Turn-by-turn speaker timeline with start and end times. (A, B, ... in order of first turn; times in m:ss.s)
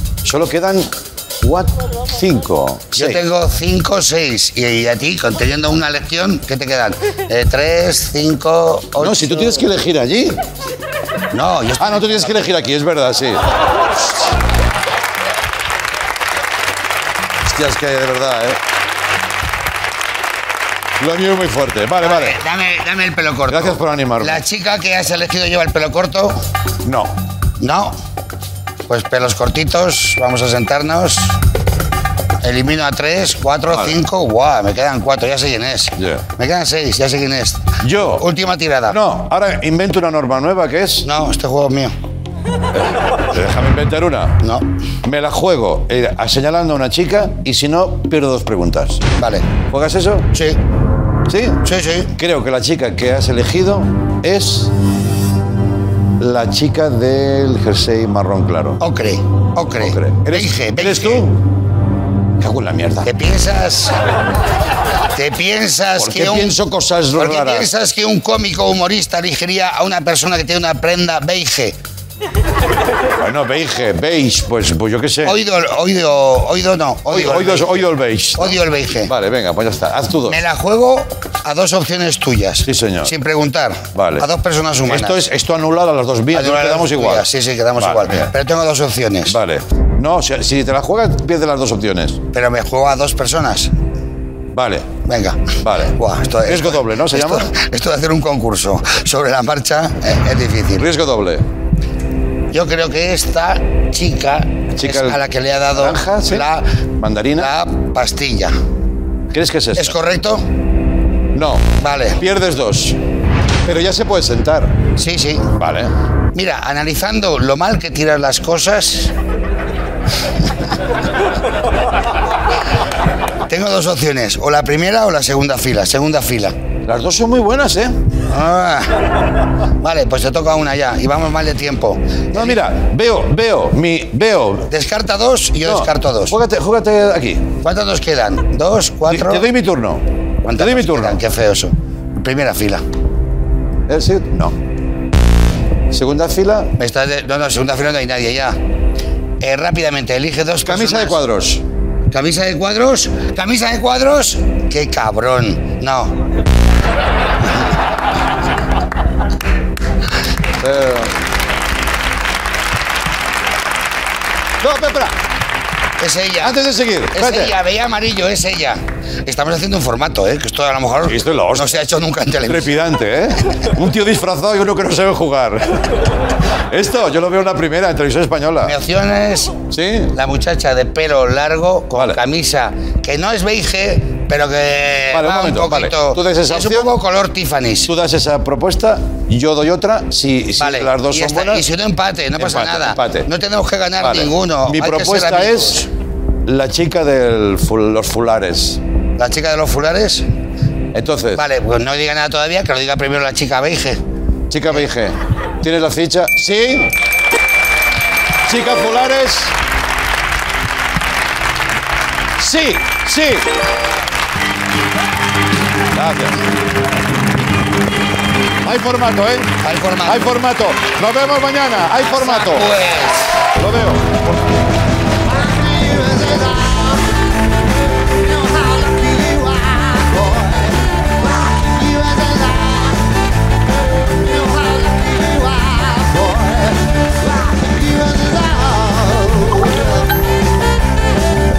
0:00.2-0:03.2 A
0:03.0-0:09.6 B
0:09.0-0:10.4 A
0:11.3-0:12.4 B
0:11.8-0:13.5 A
0:17.4-0:18.6 A
0:21.0-0:22.4 A
0:22.0-0:26.4 B
0:23.5-0:24.4 A
0:26.8-0:27.2 A
0:27.6-0:28.0 B
0:28.9-0:31.4 B
0:32.4-0:39.0 B
0:33.7-0:34.0 A
0:36.0-0:36.2 A
0:37.8-0:38.3 A
0:38.9-0:41.1 A
0:41.0-0:41.9 B
0:43.3-0:44.4 A
0:44.4-0:44.7 B
0:45.0-0:49.0 A
0:49.2-0:49.5 B
0:49.6-0:50.3 A
0:50.3-0:50.6 B
0:51.3-0:51.6 A
0:51.6-0:52.1 B
0:52.2-0:54.7 A
0:56.2-0:58.8 A
0:58.8-1:01.3 B
0:59.7-1:01.4 A
1:02.4-1:03.1 A
1:03.0-1:04.0 B
1:05.1-1:06.6 B
1:06.0-1:07.7 A
1:07.1-1:11.8 B
1:13.2-1:15.4 A
1:15.2-1:19.1 B
1:17.1-1:20.4 A
1:20.3-1:25.2 B
1:22.6-1:23.1 A
1:24.0-1:24.3 A
1:24.9-1:28.3 A
1:26.3-1:29.4 B
1:29.3-1:32.2 A
1:32.3-1:33.7 B
1:34.5-1:34.9 A
1:35.0-1:40.9 B
1:35.6-1:37.5 A
1:40.8-1:41.5 A
1:42.5-1:46.7 B
1:44.7-1:47.5 A
1:47.4-1:48.5 B
1:49.3-1:50.0 A
1:49.8-1:50.4 B
1:51.3-1:53.0 A
1:51.8-1:52.2 B
1:53.6-1:54.8 A
1:55.0-1:55.5 B
1:55.6-1:55.9 A
1:56.3-1:59.1 B
2:03.5-2:06.6 B
2:06.8-2:08.0 A
2:08.3-2:09.0 B
2:09.8-2:12.6 B
2:12.3-2:14.7 A
2:14.7-2:16.4 B
2:15.6-2:17.5 A
2:17.6-2:19.5 B
2:19.1-2:21.2 A
2:20.4-2:22.8 B
2:23.9-2:24.6 A
2:25.9-2:26.7 A
2:26.8-2:28.6 B
2:29.4-2:31.2 B
2:30.6-2:31.6 A
2:32.1-2:36.2 B
2:40.6-2:41.1 A
2:44.6-2:45.2 A
2:46.0-2:46.6 B
2:46.4-2:47.6 A
2:47.1-2:52.7 B
2:51.0-2:51.9 A
2:52.4-2:56.0 A
2:56.7-2:58.8 A
2:58.6-2:59.6 B
2:59.7-3:00.2 A
3:00.1-3:07.9 B
3:02.0-3:02.2 A
3:05.1-3:06.9 A
3:07.9-3:11.7 A
3:10.6-3:15.9 B
3:12.4-3:13.3 A
3:14.0-3:15.9 A
3:16.4-3:18.8 A
3:19.2-3:20.2 B
3:20.9-3:21.4 A
3:21.4-3:24.0 B
3:24.5-3:26.9 A
3:28.4-3:29.6 A
3:32.4-3:33.5 A
3:35.9-3:36.4 A
3:38.6-3:42.7 A
3:39.6-3:40.3 B
3:42.0-3:43.5 B
3:43.6-3:44.3 A
3:45.3-3:47.0 C
3:48.2-3:53.0 C
3:54.2-3:59.8 C